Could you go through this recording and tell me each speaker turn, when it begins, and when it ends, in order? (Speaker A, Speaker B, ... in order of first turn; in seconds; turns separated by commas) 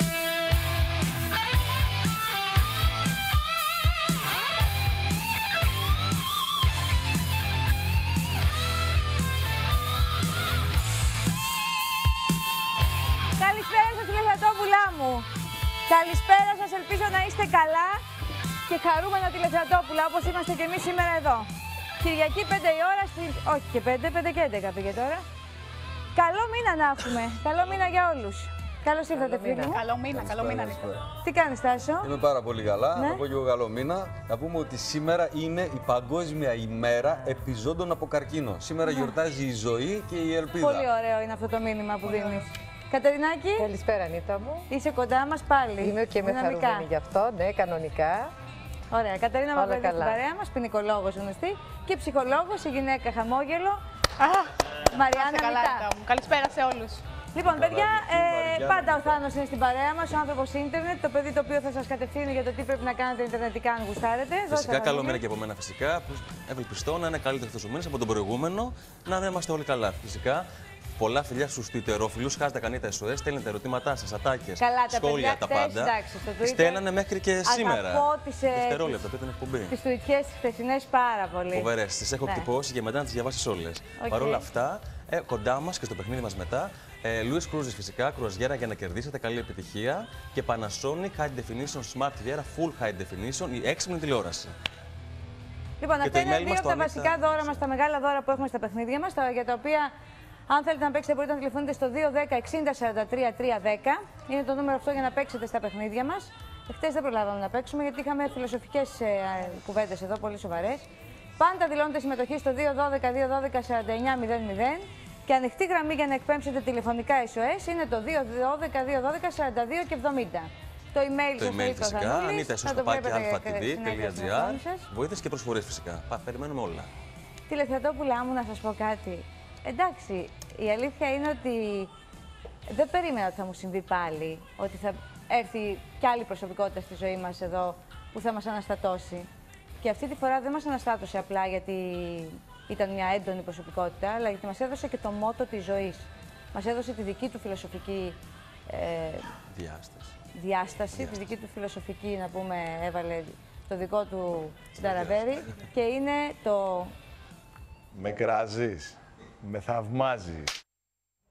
Speaker A: 13.4-15.3, Speaker A: 15.9-18.0, Speaker A: 18.7-21.5, Speaker A: 22.0-25.2, Speaker A: 26.1-29.8, Speaker B: 29.3-30.9, Speaker C: 30.1-31.1, Speaker A: 31.2-32.1, Speaker C: 32.0-40.9, Speaker A: 32.9-33.2, Speaker A: 38.9-39.1, Speaker A: 40.6-43.7, Speaker D: 43.6-44.7, Speaker A: 44.7-46.9, Speaker D: 45.8-48.3, Speaker A: 48.9-53.8, Speaker D: 49.5-50.2, Speaker B: 54.2-57.0, Speaker A: 54.9-55.9, Speaker A: 57.4-65.2, Speaker C: 57.4-59.2, Speaker E: 64.5-70.5, Speaker E: 71.0-79.8, Speaker A: 74.6-76.8, Speaker A: 77.4-79.0, Speaker A: 79.7-81.7, Speaker E: 81.5-94.5, Speaker A: 84.0-84.5, Speaker A: 95.8-99.9, Speaker E: 96.0-97.6, Speaker A: 100.5-110.9, Speaker A: 111.4-124.9, Speaker E: 121.4-126.9, Speaker A: 127.5-131.9, Speaker A: 132.7-139.3, Speaker A: 139.8-148.2, Speaker A: 148.7-149.3, Speaker E: 149.5-150.1, Speaker A: 150.3-156.9, Speaker E: 154.8-155.1, Speaker F: 157.9-160.5